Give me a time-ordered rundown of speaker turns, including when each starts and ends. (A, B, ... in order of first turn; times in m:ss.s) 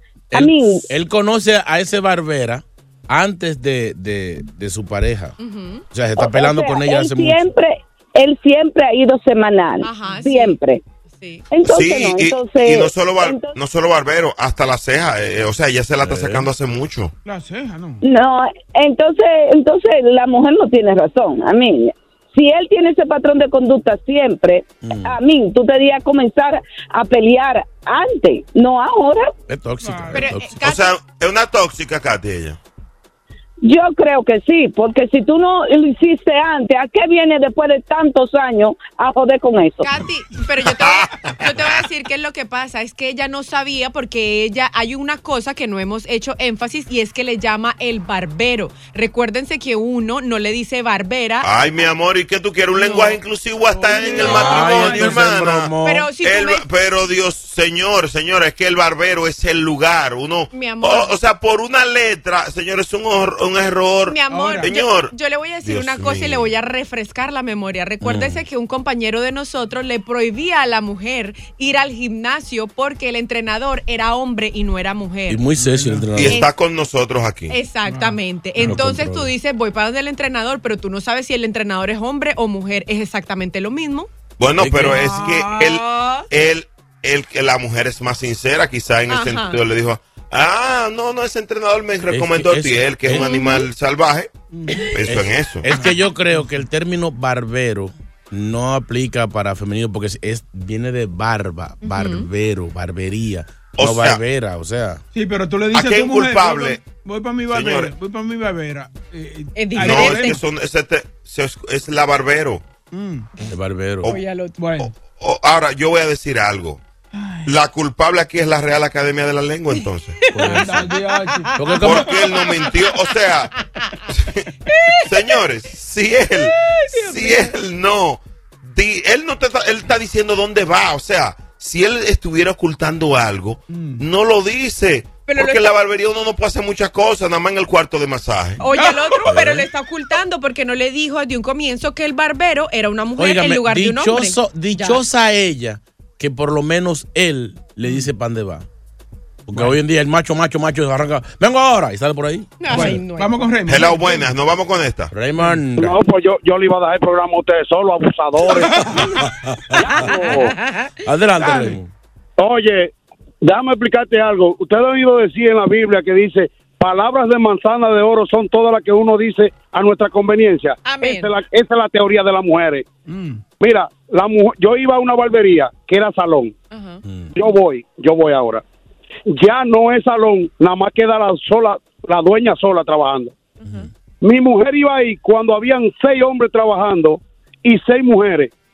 0:00.3-0:05.4 A
0:00.3-0:00.9 B
0:05.4-0:05.8 C
0:05.9-0:07.5 A
0:06.2-0:10.8 B
0:09.8-0:11.4 C
0:11.5-0:13.6 B
0:11.6-0:17.1 D
0:16.0-0:16.5 A
0:17.2-0:18.0 E
0:18.0-0:29.3 B
0:24.8-0:25.2 A
0:29.5-0:30.6 A
0:29.8-0:30.2 E
0:30.1-0:31.0 C
0:30.6-0:32.6 D
0:33.6-0:39.9 B
0:39.8-0:51.5 C
0:40.7-0:41.8 D
0:51.4-1:06.6 D
0:52.7-0:53.2 C
0:53.7-0:55.2 E
0:54.2-0:54.6 C
0:54.2-0:56.1 A
0:55.8-0:56.6 C
1:00.5-1:01.1 C
1:04.1-1:15.4 C
1:04.3-1:04.7 E
1:08.0-1:08.4 A
1:15.3-1:16.4 A
1:15.6-1:16.1 E
1:16.2-1:17.6 D
1:16.2-1:16.5 C
1:17.5-1:24.1 C
1:17.9-1:18.8 E
1:18.6-1:19.3 A
1:24.4-1:34.3 D
1:24.6-1:25.0 A
1:24.8-1:25.6 E
1:25.5-1:26.3 C
1:29.1-1:29.6 C
1:32.1-1:33.3 A
1:33.1-1:33.7 C
1:34.5-1:34.9 E
1:34.9-1:35.7 D
1:35.0-1:45.0 A
1:35.7-1:36.4 E
1:41.8-1:42.3 C
1:43.8-1:44.2 D
1:45.1-1:50.4 E
1:45.7-1:46.8 D
1:47.5-1:47.9 D
1:49.6-1:50.4 C
1:49.8-1:52.6 D
1:52.9-1:53.3 E
1:53.5-1:54.1 A
1:54.0-1:54.6 C
1:54.6-1:54.9 E
1:54.8-1:56.8 D
1:57.1-1:57.5 E
1:57.4-2:00.6 D
1:59.7-2:00.6 C
2:00.3-2:00.9 A
2:00.5-2:02.1 E
2:01.1-2:01.5 C
2:01.6-2:02.1 A
2:01.8-2:03.5 D
2:02.6-2:02.9 C
2:04.1-2:04.4 D
2:04.7-2:05.4 C
2:05.0-2:08.2 D
2:06.4-2:07.6 C
2:08.7-2:18.6 D
2:13.7-2:14.0 E
2:15.3-2:15.7 C
2:18.6-2:25.0 C
2:18.6-2:19.3 E
2:19.2-2:19.7 A
2:23.2-2:28.6 A
2:29.5-2:32.9 A
2:32.6-2:33.5 C
2:32.7-2:34.3 E
2:33.7-2:35.1 D
2:35.1-2:36.0 A
2:35.8-2:38.9 F
2:38.5-2:39.2 E
2:39.8-2:40.6 F
2:41.0-2:41.9 A
2:41.4-2:41.8 E
2:42.4-2:52.9 F
2:50.8-2:51.3 C
2:53.1-2:53.4 E
2:53.6-2:56.5 F
2:56.7-2:57.0 C
2:57.0-2:57.3 A
2:57.4-2:58.6 F
2:59.3-3:03.4 F
3:03.6-3:03.9 C
3:03.6-3:03.9 A
3:04.2-3:08.5 F